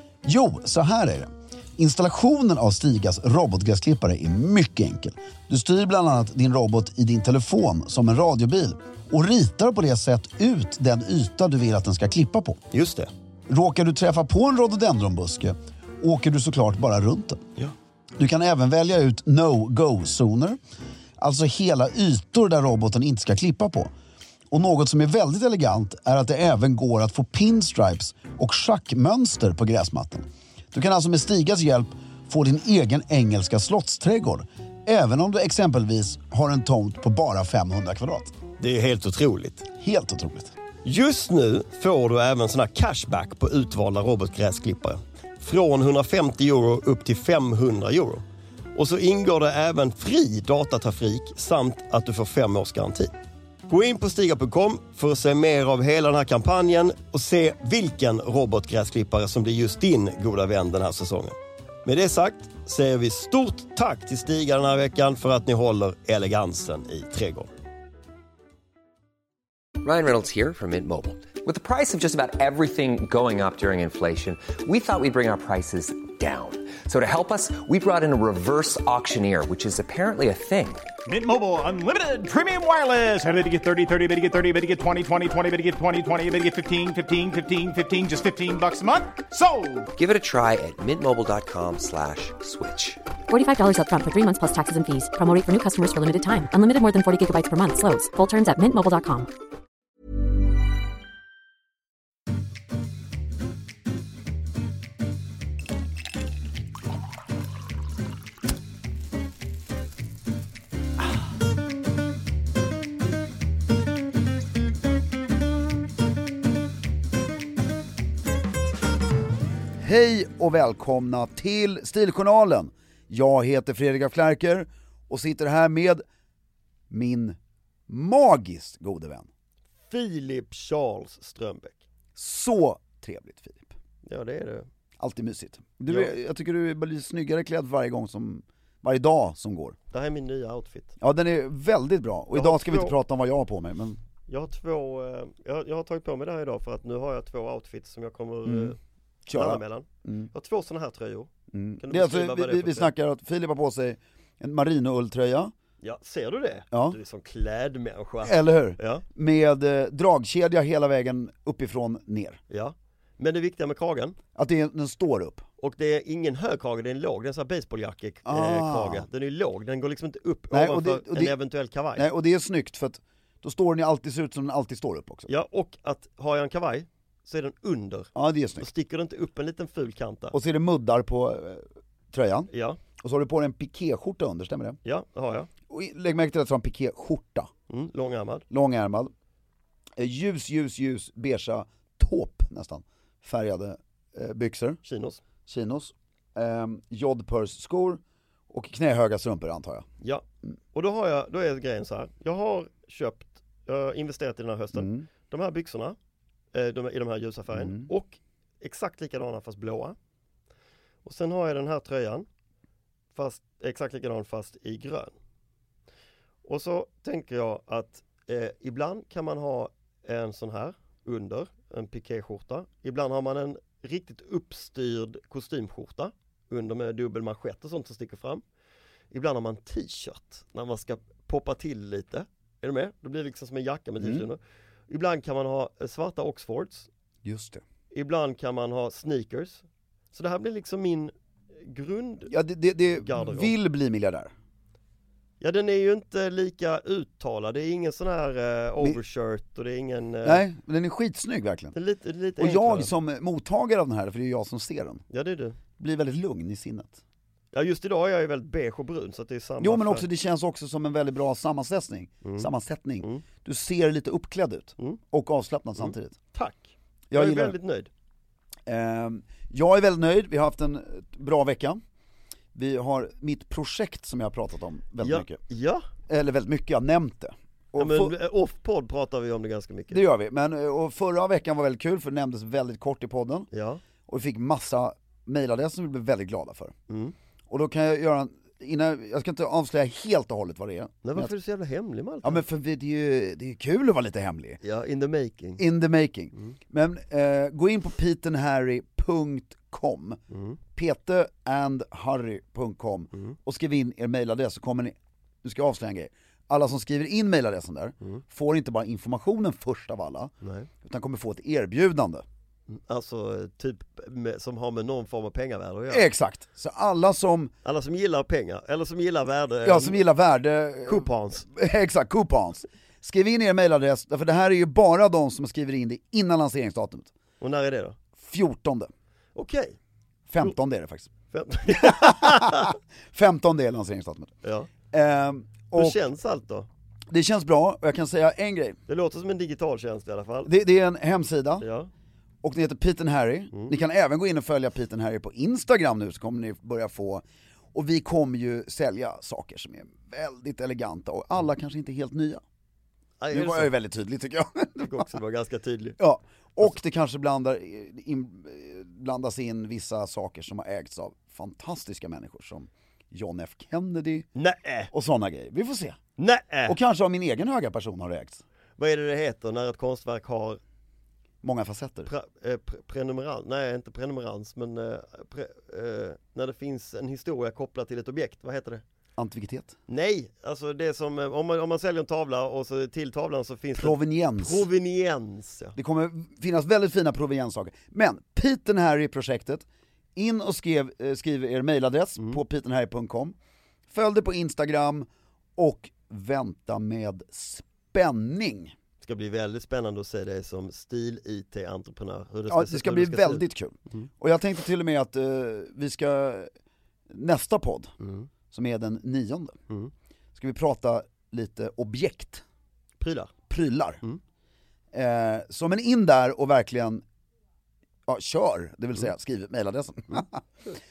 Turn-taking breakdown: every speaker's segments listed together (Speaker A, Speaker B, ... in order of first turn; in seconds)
Speaker A: 0.2-12.6, 13.5-17.4, 18.2-20.6, 21.2-23.9, 24.5-38.3, 39.8-40.5, 119.8-126.0, 126.9-129.3, 132.1-133.7, 135.0-139.8, 141.0-144.0, 148.4-148.7, 149.2-150.3, 151.5-155.5, 156.7-157.0, 158.2-162.4, 164.3-165.4, 168.2-169.1, 170.5-171.3, 171.9-175.3, 178.1-178.7, 180.3-184.8, 185.7-187.5, 188.5-189.1, 190.0-194.8, 195.4-199.9, 204.7-205.1, 207.5-207.9, 234.0-234.3, 237.2-237.6, 242.3-244.3, 250.2-251.7, 252.4-255.0, 255.8-257.0, 259.6-266.2, 267.1-267.6, 268.7-271.8, 272.5-275.4, 276.1-278.1, 279.9-283.5, 284.1-286.7, 287.5-291.3, 292.2-294.6, 295.6-300.2, 300.7-312.2, 315.9-317.5, 319.6-327.1, 328.1-328.9, 330.3-331.1, 331.7-334.4, 334.9-336.0, 337.1-338.8, 340.4-341.7, 342.4-352.4, 353.3-355.1, 356.0-364.3, 364.9-366.0, 366.6-368.4, 371.4-372.1, 379.2-379.8, 383.7-384.7, 385.8-393.4, 393.9-398.7, 402.5-406.5, 407.1-407.9, 408.5-409.6, 410.3-412.4, 413.5-414.0, 414.9-417.0, 418.1-420.4
Speaker B: 12.7-13.1, 38.6-39.7, 40.8-48.2, 48.8-53.1, 53.7-67.5, 129.8-131.8, 134.0-134.7, 135.9-136.1, 139.9-140.9, 142.3-142.9, 144.3-148.8, 149.3-151.3, 151.8-152.9, 155.8-159.0, 162.5-164.2, 165.6-172.1, 175.3-180.3, 182.5-182.8, 184.8-185.5, 187.7-188.4, 194.8-195.2, 200.0-205.9, 206.5-209.9, 211.0-212.2, 213.1-215.1, 216.4-228.4, 229.1-236.9, 237.9-242.3, 243.0-243.5, 245.4-250.4, 251.7-252.9, 255.1-255.6, 257.5-260.1, 262.2-262.5, 265.8-267.9, 275.0-275.8, 277.8-280.1, 283.5-283.8, 286.9-287.1, 291.0-292.4, 294.6-295.6, 300.3-300.6, 310.4-310.7, 312.7-316.1, 317.6-320.0, 320.9-321.5, 327.4-328.0, 329.4-329.8, 331.3-332.8, 334.4-334.7, 335.7-336.7, 338.9-340.5, 341.6-341.9, 353.2-353.7, 354.8-356.0, 364.3-364.9, 366.2-366.8, 368.8-370.6, 372.1-378.8, 379.9-385.7, 399.0-404.1, 408.0-408.3, 413.0-413.3
Speaker C: 69.8-80.9, 89.9-93.0
Speaker D: 81.0-89.9
Speaker E: 93.3-99.3